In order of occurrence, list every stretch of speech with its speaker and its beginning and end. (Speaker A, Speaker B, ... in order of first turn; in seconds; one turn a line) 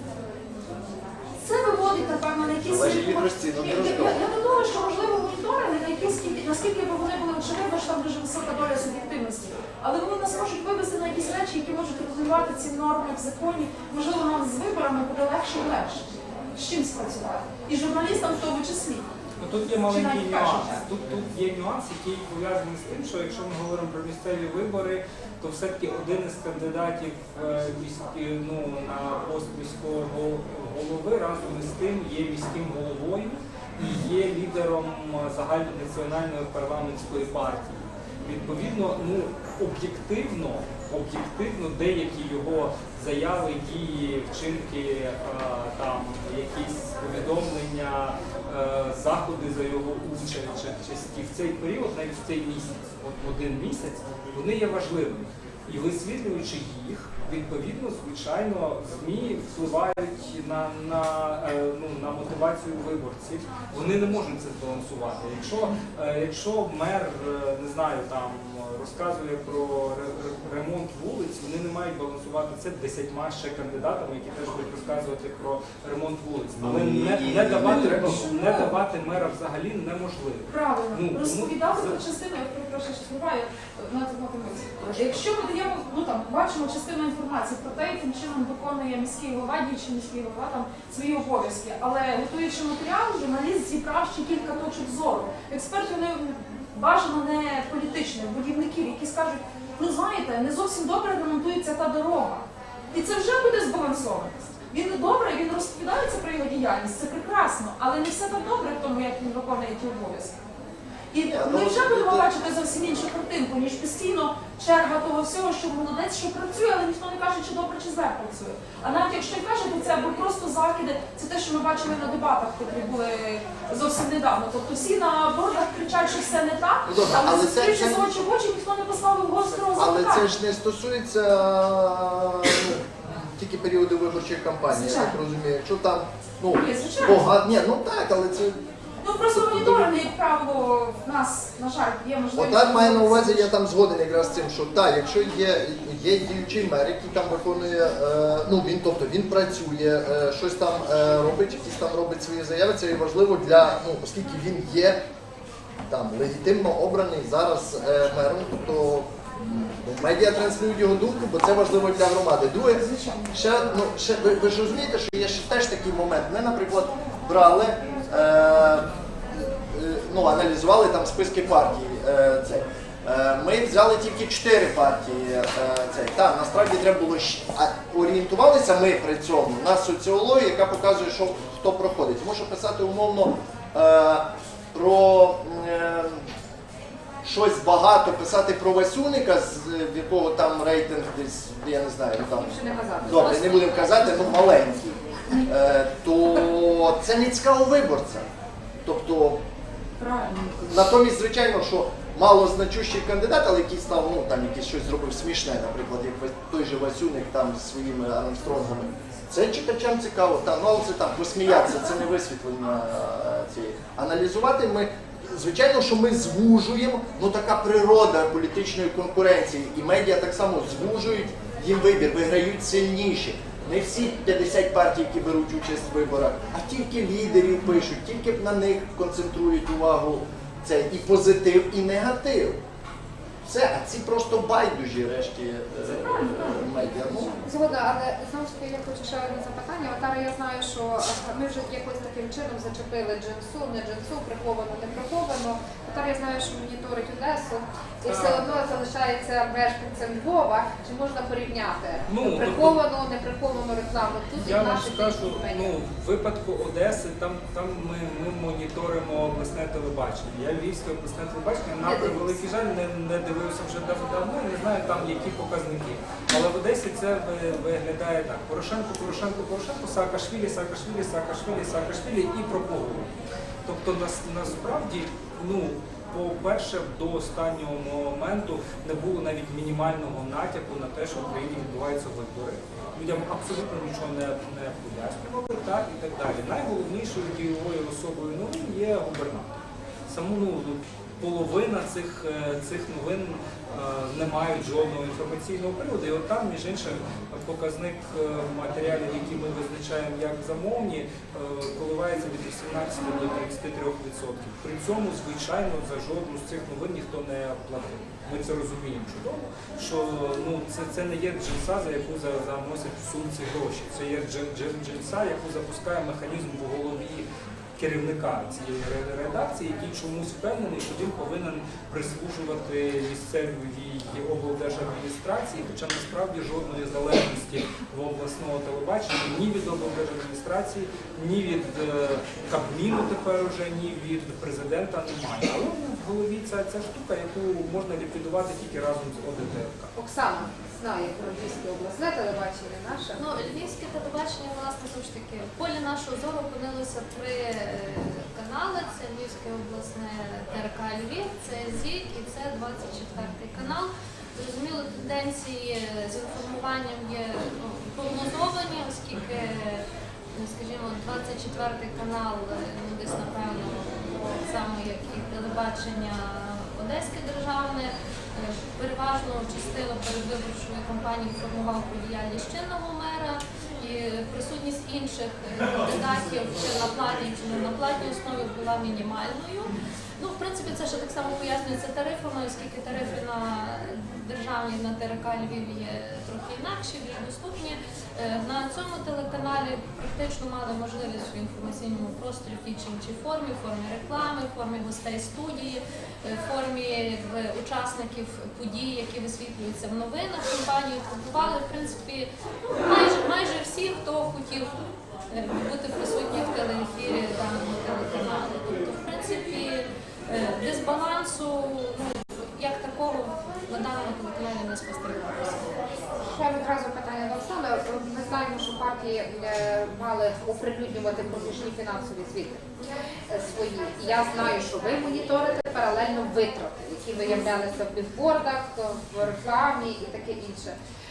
Speaker A: 1.4-19.1
Speaker B: 2.6-4.2
Speaker C: 19.4-82.0
Speaker A: 19.9-20.9
Speaker B: 76.6-78.3
Speaker A: 77.6-78.8
Speaker A: 80.5-110.3
Speaker A: 111.1-130.2
Speaker B: 111.2-112.3
Speaker B: 126.8-128.1
Speaker B: 129.7-138.6
Speaker A: 134.7-135.2
Speaker A: 136.5-137.3
Speaker A: 139.0-143.5
Speaker B: 139.2-139.9
Speaker B: 142.3-155.0
Speaker B: 155.9-186.3
Speaker A: 162.8-163.4
Speaker B: 187.2-198.2
Speaker D: 192.3-194.2
Speaker B: 198.8-199.4
Speaker A: 200.0-200.5
Speaker B: 200.4-232.6
Speaker B: 233.4-237.4
Speaker D: 237.4-255.8
Speaker C: 248.1-248.4
Speaker C: 252.1-252.8
Speaker C: 254.3-273.1
Speaker D: 261.8-262.3
Speaker C: 273.6-289.6
Speaker C: 290.1-317.2
Speaker C: 317.8-339.9
Speaker D: 339.9-343.2
Speaker E: 343.1-404.7
Speaker E: 405.3-415.7
Speaker D: 416.2-422.6
Speaker D: 423.3-430.8